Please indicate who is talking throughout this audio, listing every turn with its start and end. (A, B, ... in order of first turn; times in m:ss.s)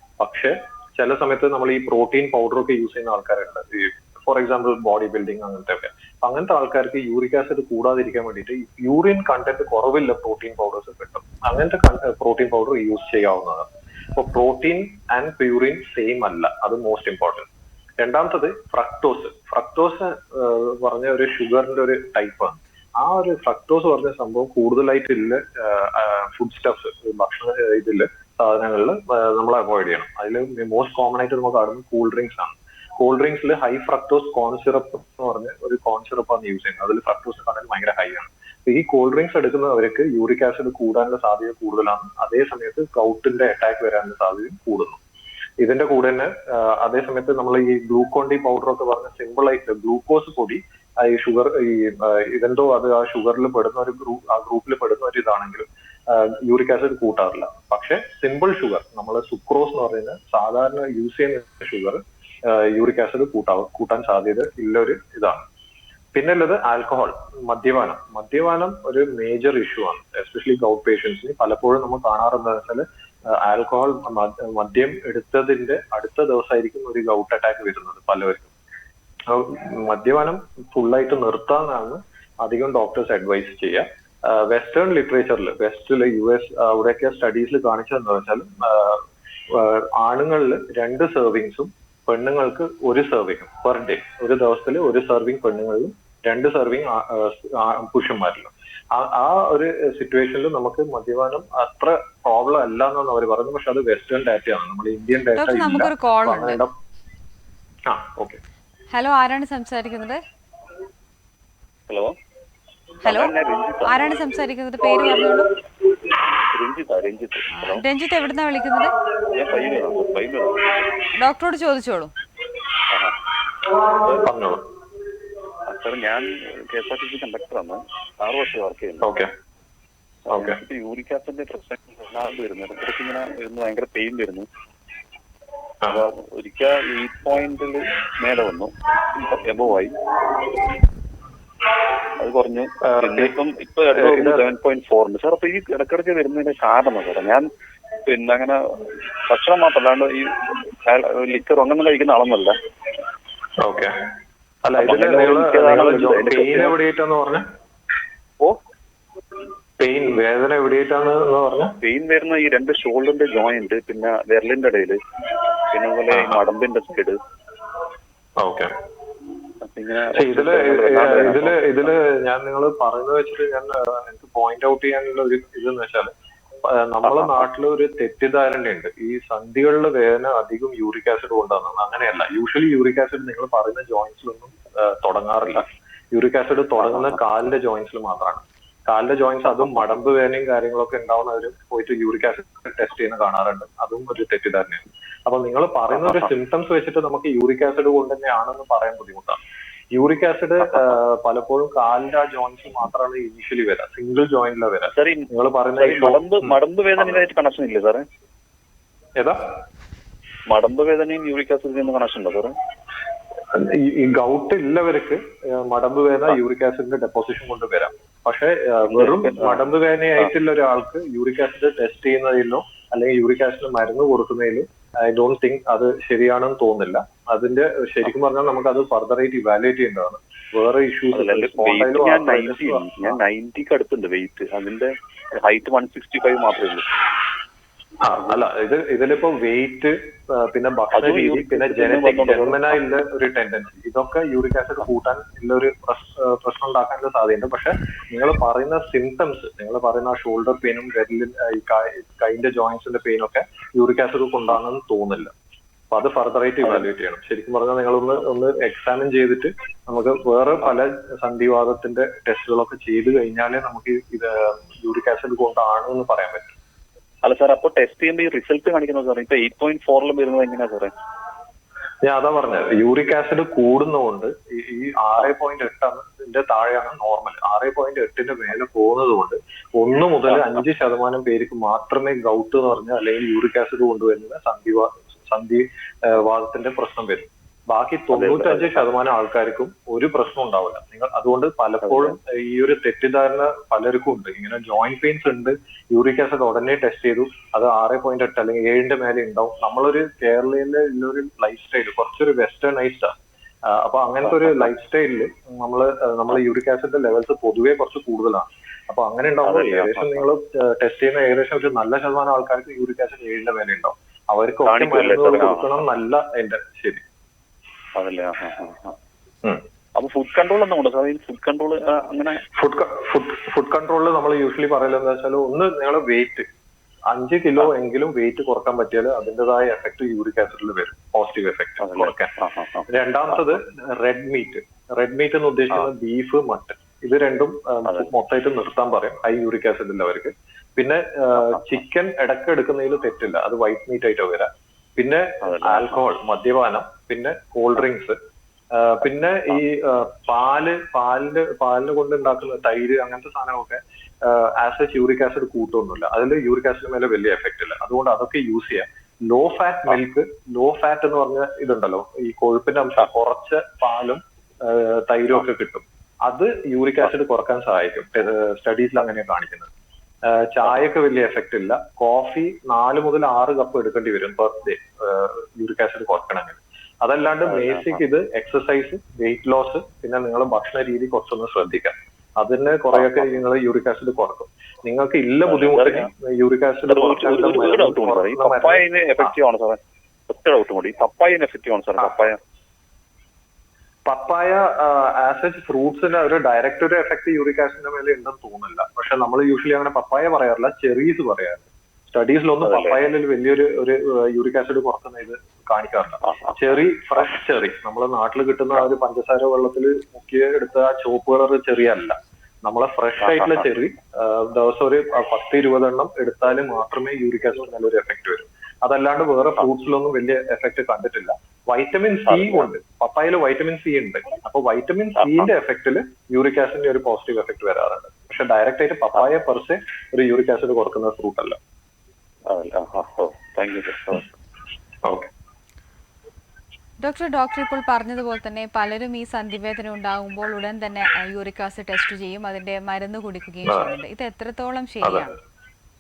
0:00.2-0:17.5 A
0:18.0-0:45.0 A
0:45.6-1:05.4 A
1:06.1-1:18.5 A
1:19.3-1:46.8 A
1:45.4-1:46.6 B
1:47.9-1:48.4 A
1:48.9-1:50.2 B
1:51.9-1:52.1 C
1:53.0-1:55.5 B
1:53.0-1:54.1 C
1:56.4-1:57.8 C
1:57.5-1:58.9 B
1:59.3-2:00.8 C
2:01.1-2:02.1 B
2:02.9-2:03.2 C
2:04.2-2:04.6 A
2:05.7-2:09.1 C
2:09.0-2:09.3 A
2:10.3-2:14.5 C
2:10.3-2:10.6 A
2:15.8-2:20.0 C
2:22.2-2:27.5 C
2:22.8-2:23.4 A
2:23.9-2:24.5 A
2:28.1-2:32.5 C
2:33.6-2:34.0 A
2:34.6-2:37.4 A
2:34.8-2:36.8 C
2:39.8-2:41.8 A
2:41.8-2:45.0 C
2:45.6-2:47.2 C
2:46.1-2:46.4 A
2:48.4-2:48.7 A
2:49.6-2:51.9 C
2:50.1-2:56.1 A
2:56.6-3:19.4 A
2:57.1-2:57.4 C
3:19.9-3:27.3 A
3:25.0-3:28.0 C
3:29.2-3:29.5 A
3:30.5-3:32.5 C
3:33.5-3:53.2 A
3:38.9-3:39.6 C
3:51.1-3:56.9 C
3:58.0-4:15.3 A
4:00.9-4:02.8 C
4:15.9-4:26.6 A
4:27.2-4:30.9 C
4:32.0-5:17.0 A
4:40.3-4:40.6 C
4:48.1-4:48.8 C
4:51.8-4:52.2 C
5:09.4-5:10.2 C
5:14.7-5:15.8 C
5:18.0-5:19.0 C
5:20.0-5:22.4 C
5:22.6-5:26.5 A
5:27.1-5:32.3 A
5:31.8-5:32.9 C
5:32.9-5:48.2 A
5:37.9-5:38.1 C
5:45.4-5:46.0 C
5:48.7-6:09.7 A
6:10.2-6:29.3 A
6:17.5-6:18.0 C
6:25.5-6:26.1 C
6:26.9-6:32.4 C
6:34.1-7:11.6 A
6:42.6-6:43.0 C
7:02.4-7:02.6 C
7:12.5-7:14.3 C
7:15.0-7:15.3 A
7:17.0-7:25.3 B
7:25.0-7:25.3 A